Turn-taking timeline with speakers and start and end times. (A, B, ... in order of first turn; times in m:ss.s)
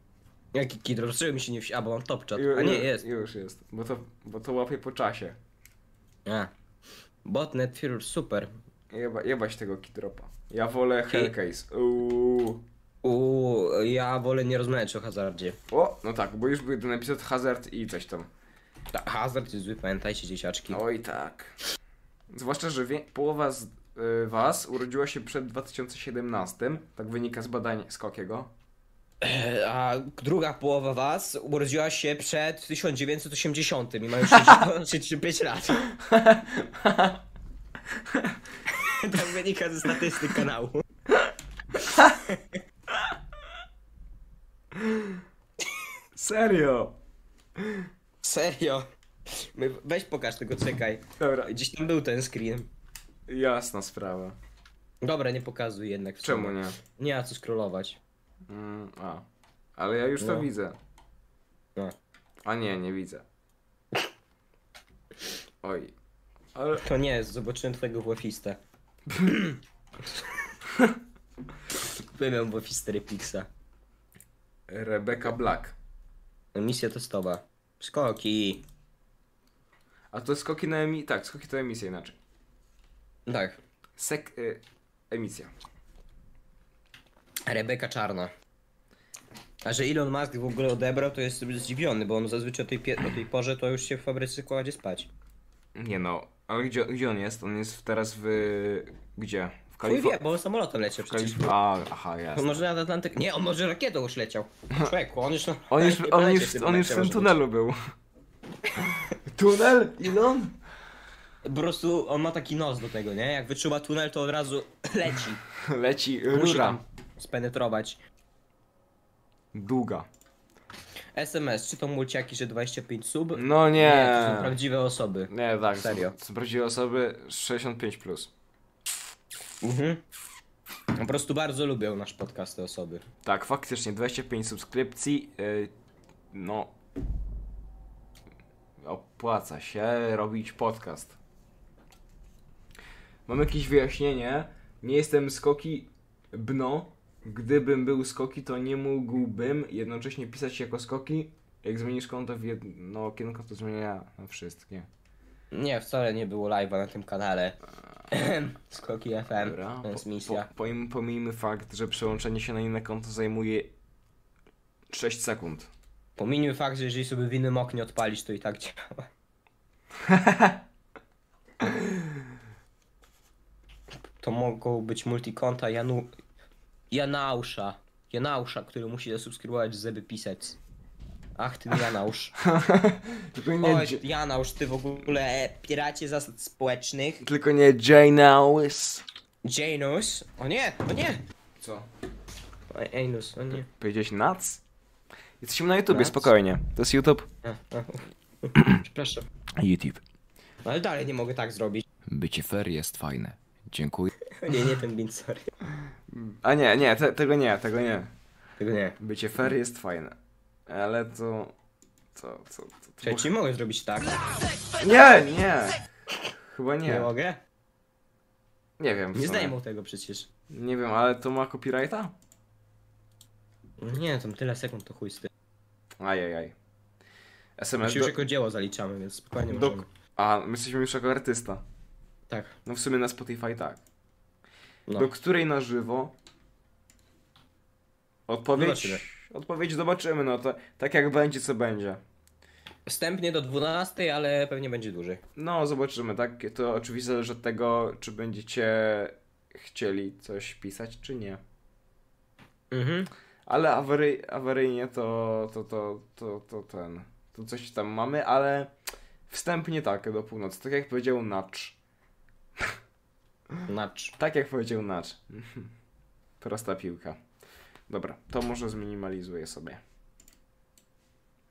0:00.5-0:03.0 A
0:02.4-0:05.4 B
0:06.2-0:06.5 A
0:07.2-0:08.5 A
0:08.9-0:12.6 B
0:13.0-0:15.6 A
0:15.7-0:18.3 B
0:18.9-0:20.8 A
0:20.7-0:21.6 B
0:22.3-0:28.5 B
0:29.2-0:35.9 A
0:34.3-0:34.6 B
0:35.9-0:37.2 B
0:37.9-0:38.4 B
0:38.7-0:40.8 A
0:41.2-0:42.2 B
0:42.0-0:42.6 A
0:44.7-0:45.2 B
0:46.1-0:47.0 B
0:47.6-0:47.9 B
0:48.2-0:52.7 A
0:51.2-0:51.5 B
0:53.3-0:54.4 B
0:55.0-0:58.0 A
0:56.2-0:56.8 B
0:58.5-0:59.2 B
0:59.8-1:00.8 B
1:00.2-1:00.5 A
1:02.4-1:03.2 B
1:05.6-1:05.9 B
1:06.5-1:06.8 B
1:06.8-1:08.6 A
1:09.2-1:09.6 A
1:11.8-1:13.5 A
1:14.7-1:15.7 B
1:16.5-1:18.6 A
1:20.1-1:22.2 B
1:23.3-1:23.6 A
1:24.0-1:25.5 B
1:27.4-1:28.3 A
1:29.6-1:35.1 A
1:35.8-1:40.2 B
1:39.8-1:41.5 A
1:41.0-1:42.6 B
1:42.3-1:47.4 A
1:45.7-1:47.8 B
1:49.2-1:50.6 B
1:51.4-1:55.4 A
1:55.6-1:56.8 B
1:56.3-1:58.0 A
1:59.5-2:00.1 B
2:01.1-2:06.2 A
2:03.3-2:04.6 B
2:05.3-2:08.3 B
2:09.6-2:10.0 A
2:10.9-2:13.0 A
2:13.2-2:15.7 B
2:16.3-2:16.7 B
2:18.8-2:21.2 B
2:23.2-2:34.9 B
2:35.5-2:37.6 A
2:38.1-2:40.5 A
2:39.4-2:43.7 B
2:44.9-2:45.7 B
2:46.2-2:49.1 A
2:50.0-2:50.6 B
2:51.6-2:52.0 B
2:54.2-2:56.1 A
2:56.9-3:00.6 A
3:01.4-3:02.3 A
3:02.4-3:04.0 B
3:03.6-3:07.2 A
3:07.2-3:09.0 B
3:09.4-3:11.2 A
3:11.6-3:11.9 B
3:12.7-3:13.7 A
3:13.7-3:14.6 B
3:15.4-3:17.3 B
3:15.9-3:16.3 A
3:17.4-3:19.3 A
3:19.6-3:20.0 B
3:20.6-3:21.8 A
3:22.1-3:24.6 B
3:24.4-3:25.5 A
3:26.1-3:28.1 B
3:28.6-3:29.0 A
3:29.0-3:30.1 B
3:30.7-3:31.5 B
3:32.1-3:33.3 B
3:33.0-3:34.4 A
3:34.8-3:35.8 B
3:36.4-3:37.1 B
3:36.9-3:37.4 A
3:38.8-3:39.5 B
3:39.1-3:40.3 A
3:40.5-3:42.1 B
3:43.8-3:45.3 A
3:46.0-3:46.5 B
3:47.6-3:48.1 B
3:47.8-3:49.9 A
3:49.5-3:51.6 B
3:52.3-3:52.6 A
3:52.6-3:53.8 B
3:54.9-3:56.1 B
3:58.3-4:02.0 B
3:58.5-3:59.0 A
4:02.9-4:05.2 A
4:05.4-4:11.4 B
4:12.7-4:13.1 A
4:13.4-4:18.7 B
4:19.3-4:21.8 B
4:23.7-4:24.1 A
4:24.2-4:25.7 B
4:26.4-4:27.2 B
4:27.9-4:29.8 B